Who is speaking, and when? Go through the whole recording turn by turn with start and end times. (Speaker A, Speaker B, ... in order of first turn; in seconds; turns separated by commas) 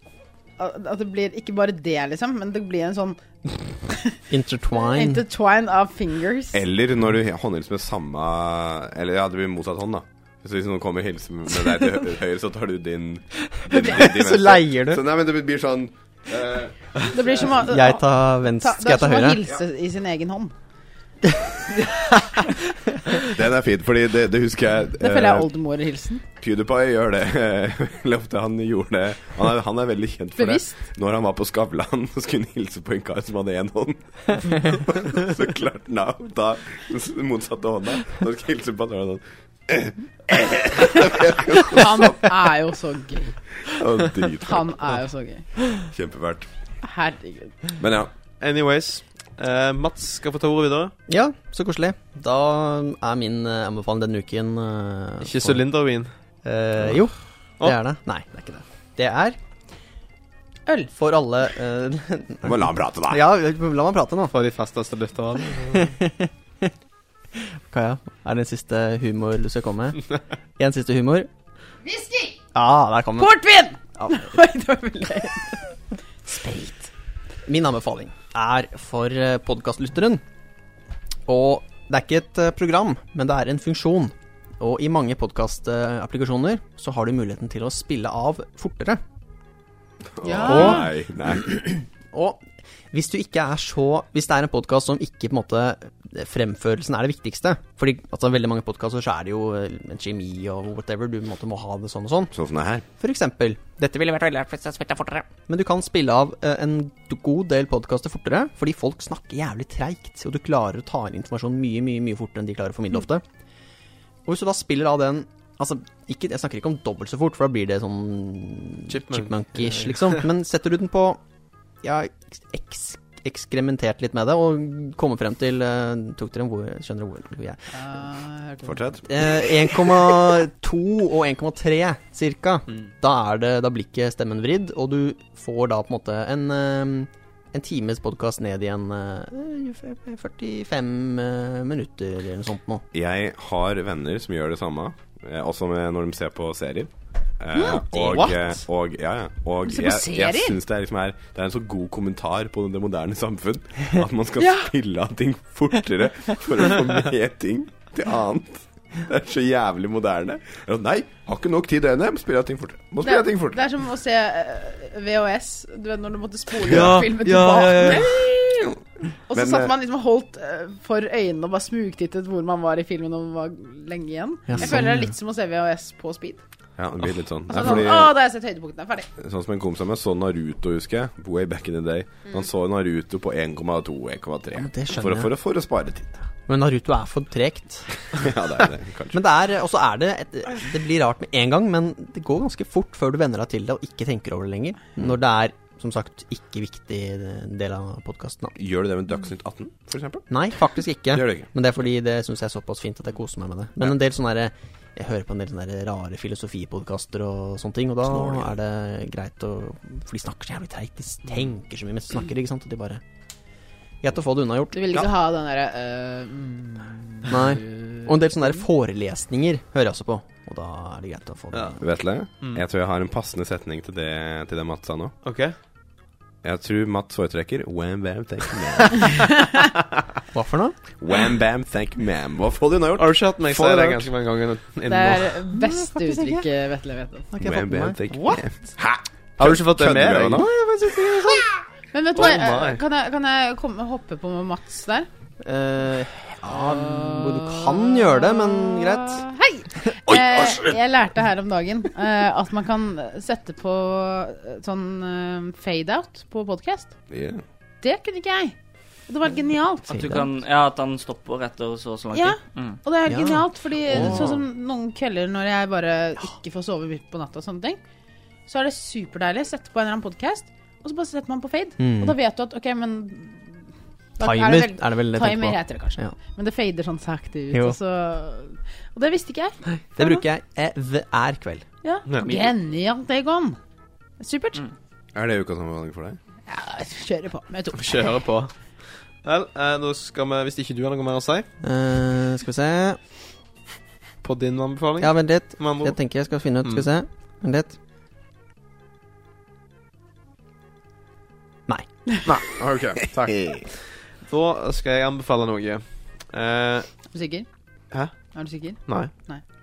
Speaker A: 0.6-4.2, Speaker B: 4.3-5.2, Speaker A: 4.7-6.6, Speaker C: 6.5-17.5, Speaker B: 13.7-15.0, Speaker A: 17.1-20.5, Speaker B: 17.6-19.4, Speaker C: 23.2-25.5, Speaker A: 25.0-26.2, Speaker C: 26.4-42.3, Speaker A: 30.4-30.8, Speaker A: 41.6-43.4, Speaker C: 43.6-44.9, Speaker A: 44.4-45.5, Speaker C: 45.8-46.5, Speaker A: 46.8-47.5, Speaker C: 47.8-48.1, Speaker D: 48.4-50.9, Speaker B: 51.1-55.6, Speaker D: 55.2-56.1, Speaker B: 56.4-59.4, Speaker B: 61.0-64.3, Speaker C: 62.4-63.2, Speaker D: 64.3-65.9, Speaker B: 65.7-66.7, Speaker B: 67.3-71.3, Speaker A: 71.9-72.3, Speaker B: 72.5-73.4, Speaker A: 73.2-75.7, Speaker B: 74.0-74.3, Speaker A: 76.3-76.9, Speaker B: 77.5-80.2, Speaker B: 81.3-89.0, Speaker C: 90.2-91.8, Speaker A: 90.2-90.9, Speaker B: 90.4-90.9, Speaker B: 92.1-102.3, Speaker C: 102.3-102.8, Speaker B: 103.0-113.2, Speaker B: 114.2-121.2, Speaker D: 118.9-120.2, Speaker B: 121.8-127.6, Speaker A: 127.7-128.8, Speaker C: 128.6-129.1, Speaker B: 129.1-142.8, Speaker C: 142.9-163.6, Speaker D: 147.7-148.6, Speaker A: 149.6-150.6, Speaker A: 154.4-154.7, Speaker A: 163.0-168.1, Speaker D: 166.7-168.4, Speaker C: 166.7-167.0, Speaker C: 168.0-168.7, Speaker A: 169.3-176.4, Speaker C: 169.3-169.7, Speaker B: 174.5-175.1, Speaker C: 176.8-178.1, Speaker A: 177.5-179.1, Speaker C: 179.2-186.2, Speaker B: 184.6-185.3, Speaker B: 186.5-187.9, Speaker C: 188.1-189.2, Speaker B: 189.1-198.6, Speaker C: 198.6-200.3, Speaker B: 200.3-213.0, Speaker C: 201.1-201.5, Speaker C: 208.1-208.5, Speaker B: 214.0-215.0, Speaker A: 214.7-218.1, Speaker B: 217.3-221.8, Speaker D: 221.5-221.8, Speaker C: 221.8-225.1, Speaker D: 225.2-225.6, Speaker C: 226.4-229.3, Speaker B: 230.3-230.8, Speaker C: 231.0-234.1, Speaker D: 233.0-235.3, Speaker A: 234.9-237.3, Speaker B: 235.6-236.5, Speaker B: 237.3-238.0, Speaker C: 237.4-240.5, Speaker D: 239.4-240.5, Speaker B: 240.4-241.5, Speaker A: 241.9-245.1, Speaker D: 242.1-242.8, Speaker B: 245.4-249.3, Speaker A: 246.5-256.9, Speaker C: 250.3-250.6, Speaker C: 257.1-257.4, Speaker A: 257.8-260.1, Speaker E: 259.9-262.8, Speaker B: 259.9-260.2, Speaker A: 262.1-267.8, Speaker B: 263.1-264.4, Speaker A: 268.5-273.7, Speaker B: 271.8-272.1, Speaker A: 274.2-280.2, Speaker B: 274.2-276.1, Speaker B: 277.5-277.8, Speaker B: 279.9-281.7, Speaker A: 281.8-283.6, Speaker D: 282.1-282.4, Speaker A: 284.2-284.7, Speaker C: 285.1-286.2, Speaker A: 286.5-288.1, Speaker D: 287.7-288.6, Speaker D: 289.2-291.5, Speaker B: 291.6-293.0, Speaker D: 294.2-296.0, Speaker B: 295.0-297.8, Speaker D: 296.6-296.9, Speaker D: 302.3-306.9, Speaker C: 302.5-303.6, Speaker A: 307.1-307.4, Speaker A: 308.1-309.4, Speaker D: 308.8-309.1